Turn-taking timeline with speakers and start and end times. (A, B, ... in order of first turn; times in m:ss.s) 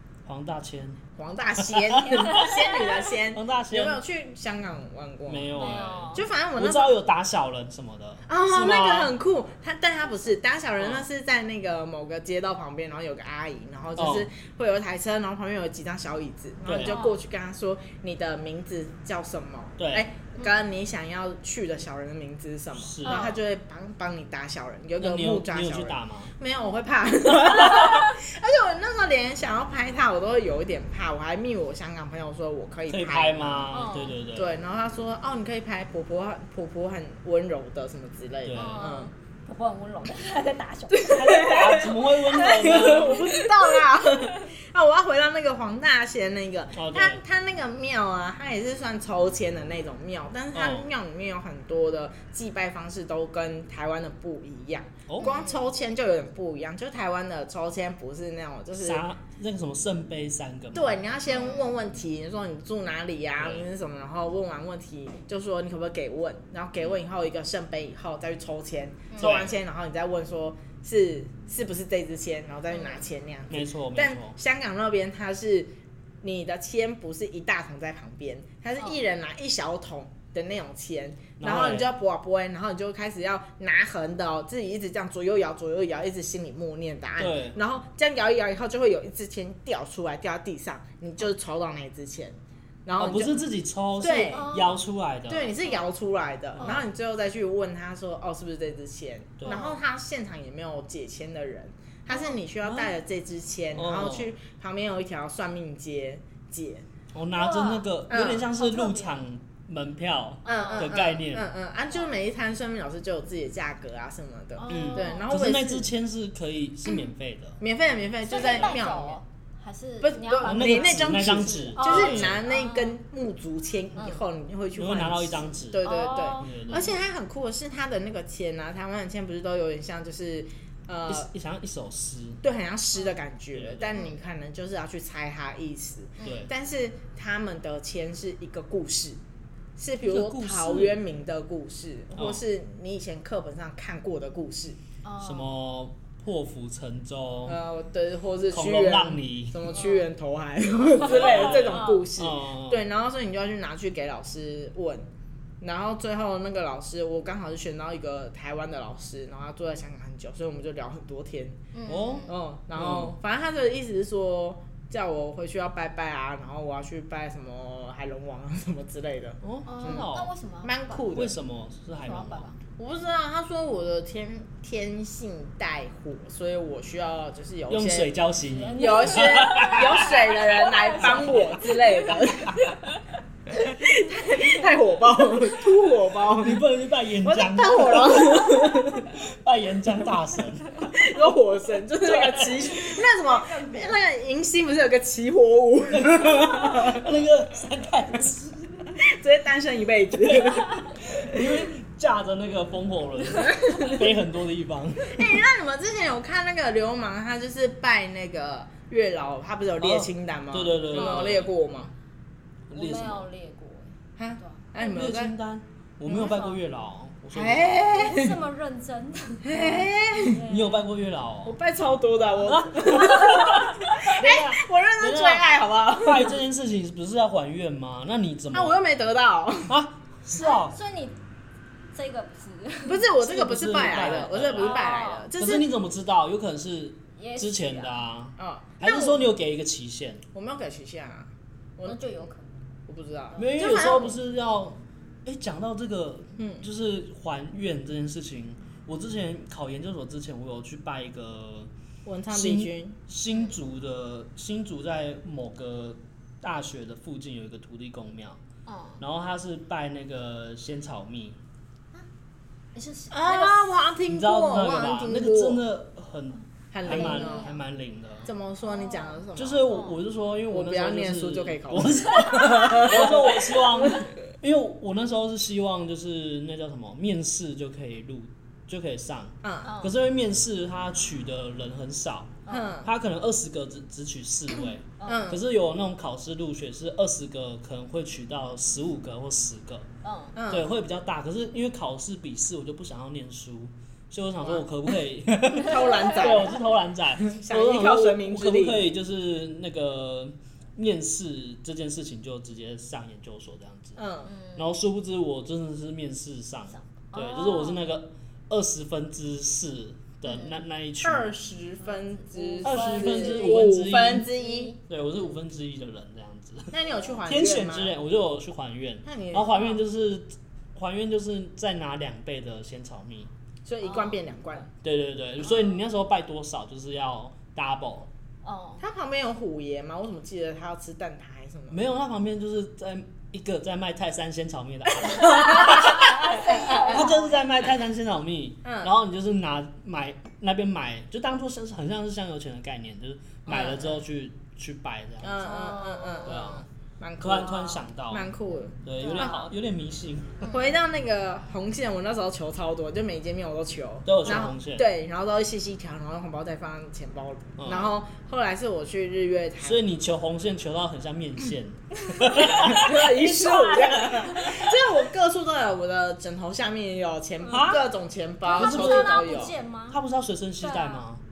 0:00.2-0:01.0 A
0:01.2-0:07.0 B
0:01.6-0:02.6 A
0:03.3-0:04.0 A
0:05.3-0:09.2 A
0:05.6-0:06.3 C
0:08.3-0:33.8 B
0:10.8-0:11.1 A
0:14.0-0:14.3 A
0:16.6-0:17.0 A
0:16.8-0:17.2 C
0:19.8-0:20.1 A
0:22.8-0:23.3 A
0:23.0-0:23.4 C
0:25.0-0:26.3 A
0:27.4-0:27.9 A
0:32.9-0:34.5 A
0:33.7-0:34.2 C
0:34.4-0:39.1 B
0:38.4-0:38.9 A
0:38.5-0:43.8 C
0:41.0-0:59.0 B
0:41.1-0:43.3 A
0:46.7-0:47.2 A
0:50.5-0:50.9 A
0:55.1-0:55.4 A
0:55.2-0:55.6 C
0:58.8-1:01.0 A
1:00.7-1:33.4 B
1:01.3-1:01.7 C
1:03.4-1:03.7 A
1:09.2-1:09.6 A
1:12.7-1:13.0 C
1:13.5-1:14.4 A
1:21.4-1:21.9 A
1:27.2-1:27.6 A
1:33.0-1:35.5 A
1:34.0-1:34.5 B
1:34.2-1:34.8 C
1:35.3-1:46.8 B
1:35.6-1:35.9 C
1:36.6-1:36.9 C
1:39.5-1:39.8 C
1:42.1-1:42.4 C
1:42.6-1:42.9 A
1:43.8-1:44.3 A
1:47.1-1:51.5 A
1:47.4-1:47.9 C
1:48.1-1:48.5 B
1:48.5-1:49.2 C
1:50.4-1:55.9 B
1:50.5-1:51.0 C
1:51.9-1:52.2 C
1:54.6-1:55.3 C
1:54.7-1:57.6 A
1:57.6-1:59.2 B
1:58.3-2:03.0 C
2:00.0-2:11.3 B
2:00.4-2:02.4 A
2:04.0-2:04.2 C
2:04.8-2:07.0 A
2:05.8-2:06.9 C
2:11.1-2:12.4 A
2:12.4-2:19.2 B
2:13.6-2:13.9 A
2:16.2-2:16.5 C
2:16.2-2:16.5 A
2:19.8-2:24.8 B
2:20.0-2:21.0 A
2:22.2-2:22.4 A
2:25.0-2:25.5 C
2:25.2-2:27.6 A
2:27.5-2:35.1 B
2:28.5-2:29.6 A
2:29.7-2:30.1 C
2:30.9-2:32.8 A
2:31.2-2:32.0 C
2:35.6-2:41.6 B
2:41.7-2:42.4 C
2:41.9-2:43.2 A
2:42.3-2:50.1 B
2:49.4-2:50.3 A
2:49.7-2:51.1 C
2:50.6-2:51.4 B
2:51.1-2:52.5 A
2:52.0-2:52.6 C
2:52.8-2:58.1 B
2:57.7-3:00.3 A
2:58.4-3:03.0 C
2:58.8-3:02.7 B
3:01.0-3:01.5 A
3:03.5-3:06.6 B
3:06.4-3:11.2 A
3:07.2-3:09.1 B
3:10.9-3:17.1 B
3:12.0-3:13.1 A
3:15.9-3:19.0 A
3:19.0-3:21.6 B
3:20.2-3:25.4 A
3:23.4-3:24.0 B
3:25.1-3:31.9 B
3:29.8-3:31.5 A
3:30.9-3:31.4 C
3:32.7-3:33.3 A
3:32.7-3:34.7 C
3:34.2-3:35.4 B
3:34.8-3:37.8 A
3:36.1-3:36.6 C
3:37.3-3:38.4 B
3:37.9-3:40.8 C
3:39.4-3:40.4 B
3:40.4-3:41.6 A
3:41.4-3:46.4 B
3:42.4-3:48.8 A
3:43.3-3:43.6 C
3:48.5-3:49.8 B
3:49.7-3:50.8 A
3:50.3-3:51.2 C
3:51.9-3:53.0 C
3:52.9-3:55.7 B
3:53.2-4:00.2 A
3:54.5-3:55.3 C
3:57.2-3:58.0 C
3:58.4-3:59.2 B
4:00.3-4:02.0 B
4:01.8-4:02.5 C
4:02.9-4:04.2 B
4:03.4-4:11.7 A
4:06.4-4:06.7 B
4:12.1-4:13.0 B
4:12.3-4:18.4 A
4:18.7-4:19.0 C
4:19.0-4:21.4 A
4:22.8-4:23.8 C
4:23.1-4:25.6 B
4:24.1-4:28.3 A
4:26.7-4:27.5 B
4:26.9-4:27.6 C
4:28.3-4:29.8 B
4:28.6-4:30.0 C
4:29.4-4:49.9 A
4:30.5-4:34.0 B
4:32.2-4:32.8 C
4:39.4-4:39.7 B
4:39.6-4:39.9 C
4:42.5-4:42.7 C
4:42.5-4:42.9 B
4:45.0-4:45.3 C
4:45.0-4:45.4 B
4:50.0-4:50.4 C
4:50.4-4:50.7 B
4:50.5-5:04.0 A
4:55.5-4:56.6 B
4:55.8-4:56.5 C
4:57.2-4:58.9 B
5:04.0-5:04.3 B
5:04.3-5:04.7 C
5:04.6-5:11.4 A
5:06.7-5:07.8 C
5:10.2-5:10.6 C
5:11.0-5:14.8 B
5:11.8-5:14.8 C
5:12.6-5:14.3 A
5:14.9-5:16.8 A
5:16.7-5:17.9 B
5:16.9-5:17.2 C
5:17.3-5:23.3 A
5:19.0-5:19.7 B
5:19.5-5:19.8 C
5:23.6-5:24.7 B
5:23.8-5:24.2 C
5:24.8-5:28.1 A
5:28.4-5:28.8 C
5:28.8-5:31.8 B
5:31.7-5:45.4 A
5:35.2-5:37.1 B
5:35.4-5:37.4 C
5:38.6-5:38.9 B
5:43.5-5:44.0 B
5:45.2-5:49.5 B
5:45.4-5:46.6 C
5:46.2-5:46.6 A
5:47.2-5:48.3 A
5:48.8-5:50.5 A
5:49.0-5:49.5 C
5:50.4-5:50.7 C
5:50.4-5:59.8 B
5:54.1-5:54.9 A
5:57.6-5:57.9 A
5:59.6-6:04.1 A
6:02.2-6:02.6 C
6:02.3-6:09.5 B
6:03.1-6:04.6 C
6:07.5-6:07.9 A
6:08.5-6:10.0 C
6:08.6-6:11.2 A
6:10.6-6:11.0 C